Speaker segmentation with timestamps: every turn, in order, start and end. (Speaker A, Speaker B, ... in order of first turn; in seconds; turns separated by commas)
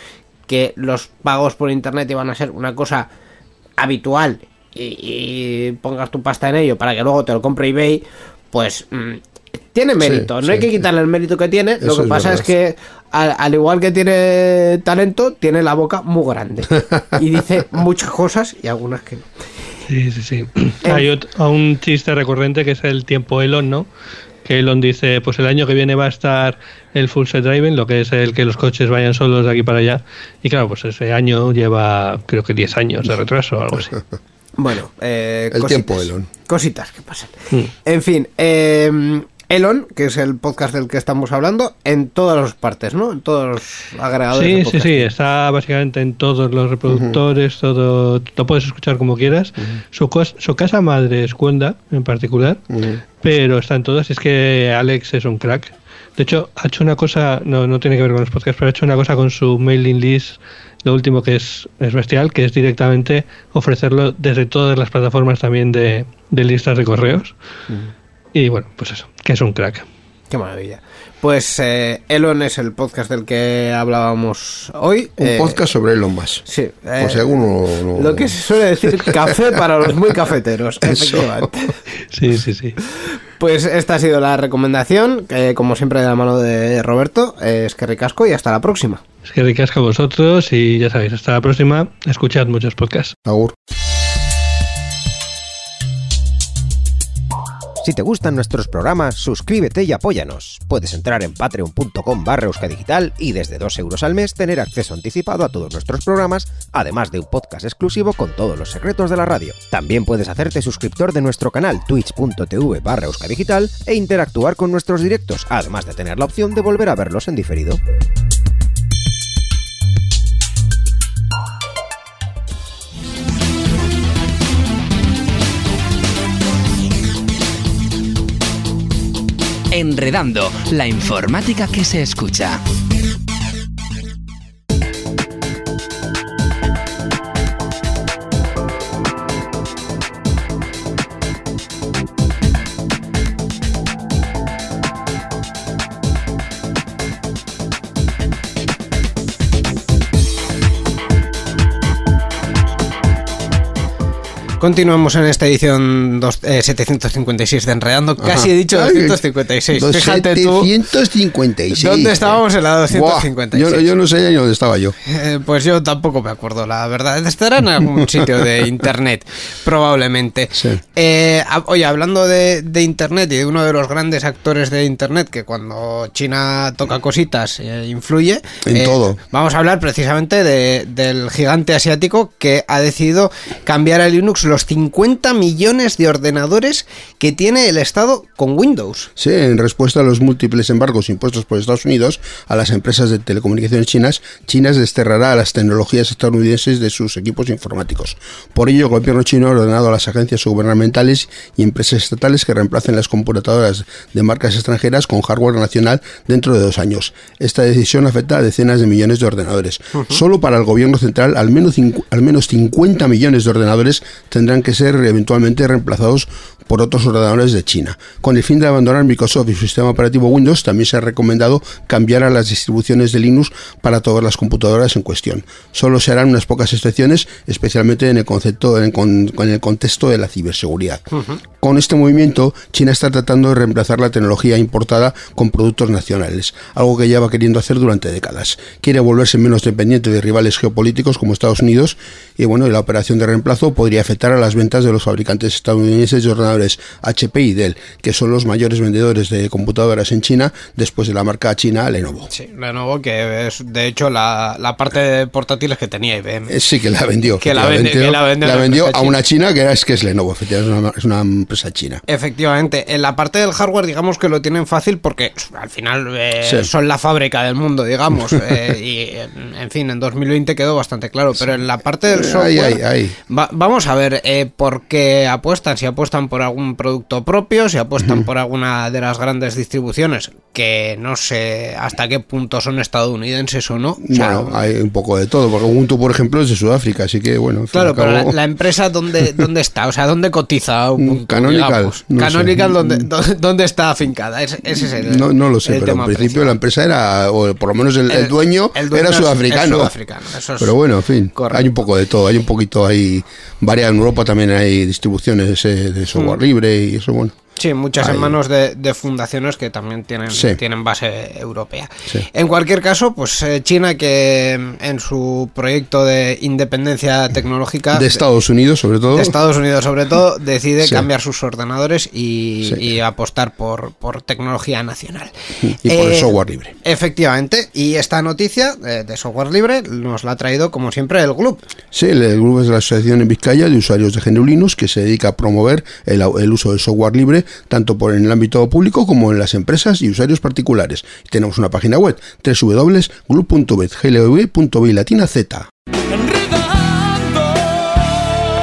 Speaker A: 0.5-3.1, Speaker A: 3.8-9.2, Speaker A: 9.7-19.3, Speaker B: 10.0-10.7, Speaker B: 11.8-12.5, Speaker C: 19.9-23.9, Speaker C: 24.4-34.0, Speaker A: 34.6-45.1, Speaker B: 35.5-36.3, Speaker C: 44.3-52.6, Speaker B: 46.9-47.2, Speaker B: 52.7-53.0, Speaker C: 53.2-67.3, Speaker C: 68.3-69.9, Speaker A: 70.3-75.6, Speaker B: 75.2-76.5, Speaker A: 76.5-77.4, Speaker B: 77.0-79.4, Speaker A: 78.0-81.8, Speaker B: 80.8-81.5, Speaker C: 82.1-82.8, Speaker A: 83.4-89.0, Speaker C: 89.3-93.2, Speaker B: 93.3-93.5, Speaker D: 97.8-117.8, Speaker E: 129.7-132.6, Speaker A: 154.6-160.7, Speaker B: 158.2-159.2, Speaker B: 159.7-165.0, Speaker A: 161.7-163.9, Speaker A: 165.1-189.1, Speaker B: 170.5-170.8, Speaker B: 178.7-179.2, Speaker B: 189.2-231.0, Speaker B: 231.6-252.3, Speaker A: 252.3-256.6, Speaker B: 256.5-262.0, Speaker A: 257.4-259.2, Speaker A: 262.1-284.5, Speaker B: 266.4-266.7, Speaker B: 272.1-273.2, Speaker B: 278.0-278.3, Speaker B: 284.0-288.4, Speaker A: 287.7-296.5, Speaker B: 291.0-293.1, Speaker B: 294.8-299.9, Speaker A: 298.1-300.8, Speaker B: 300.6-307.4, Speaker A: 301.4-301.7, Speaker A: 307.6-318.2, Speaker B: 308.0-308.4, Speaker B: 310.3-310.6, Speaker B: 317.9-319.4, Speaker A: 319.1-325.3, Speaker B: 325.7-326.8, Speaker A: 325.9-326.3, Speaker A: 326.8-331.6, Speaker B: 331.9-345.7